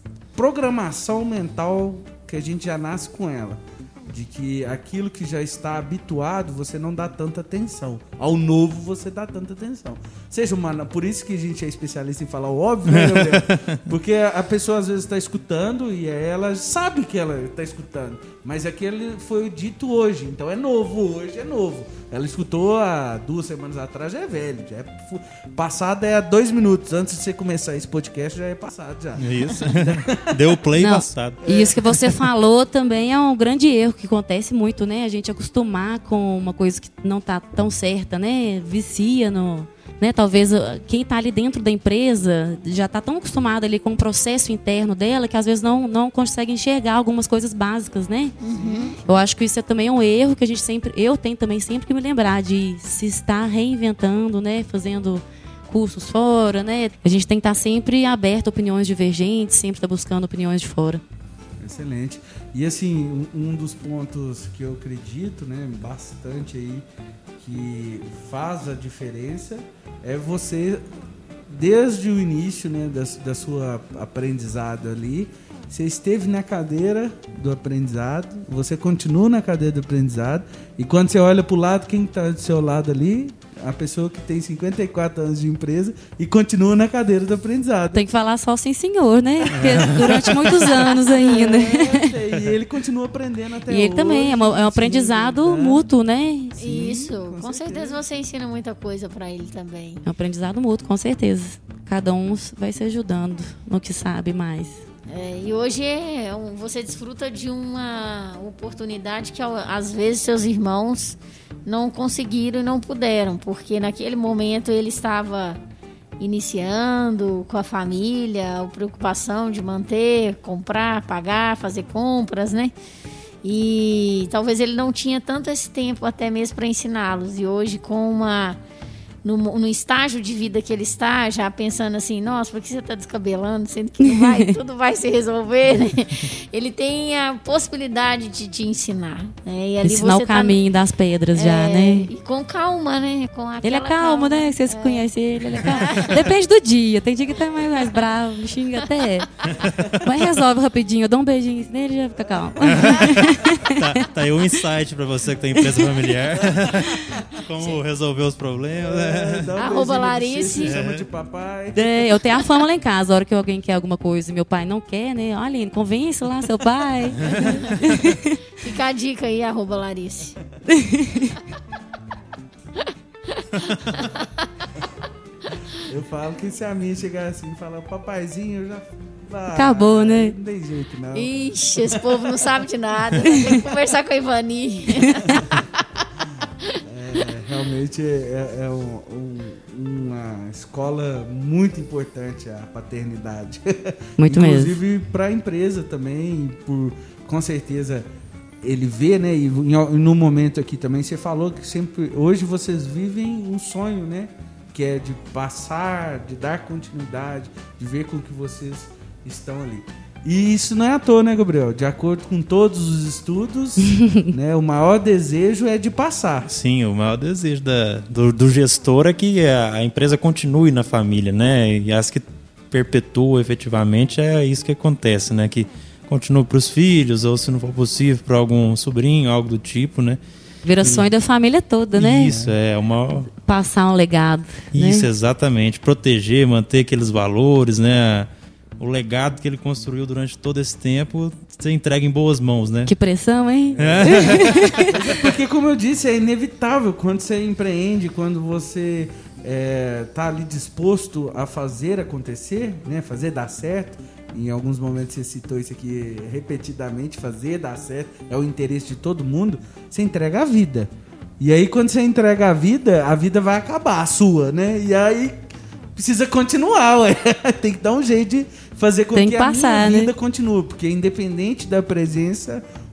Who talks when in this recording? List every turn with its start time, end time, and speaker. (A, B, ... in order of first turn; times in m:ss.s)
0:00.4-0:30.5 A
0:12.9-0:13.8 B
0:29.2-0:31.9 B
0:30.8-0:48.4 C
0:31.4-0:31.8 A
0:48.4-0:49.0 D
0:48.6-0:48.9 A
0:49.0-1:01.0 C
1:01.6-1:06.9 A
1:07.4-1:10.8 A
1:11.5-1:28.0 A
1:27.9-1:32.1 C
1:29.5-1:35.9 A
1:29.5-1:30.5 B
1:33.7-1:36.6 C
1:36.6-1:38.0 A
1:36.6-1:40.0 D
1:40.0-1:44.8 C
1:45.1-1:55.6 D
1:56.2-2:02.8 D
2:03.4-2:08.6 D
2:09.2-2:20.6 D
2:19.8-2:22.1 C
2:21.3-2:26.2 D
2:23.6-2:34.0 C
2:29.6-2:29.9 B
2:32.6-2:39.5 B
2:35.6-2:35.9 C
2:36.5-2:37.2 A
2:38.7-2:42.2 A
2:39.6-2:40.8 D
2:40.6-2:41.0 B
2:41.8-2:48.4 C
2:47.4-2:47.7 D
2:48.6-2:50.4 D
2:50.7-2:51.4 C
2:52.8-2:54.4 D
2:55.8-3:02.0 A
2:59.5-3:00.4 C
3:01.2-3:05.8 D
3:05.3-3:05.6 A
3:06.8-3:18.1 A
3:14.2-3:14.8 C
3:18.6-3:36.5 A
3:36.5-3:50.2 B
3:50.6-3:52.4 C
3:50.8-3:51.1 B
3:51.9-3:53.3 B
3:53.4-3:55.1 C
3:54.7-4:02.9 B
4:02.9-4:05.2 C
4:03.8-4:25.4 A
4:03.8-4:04.8 B
4:26.0-4:32.6 A
4:29.1-4:30.1 C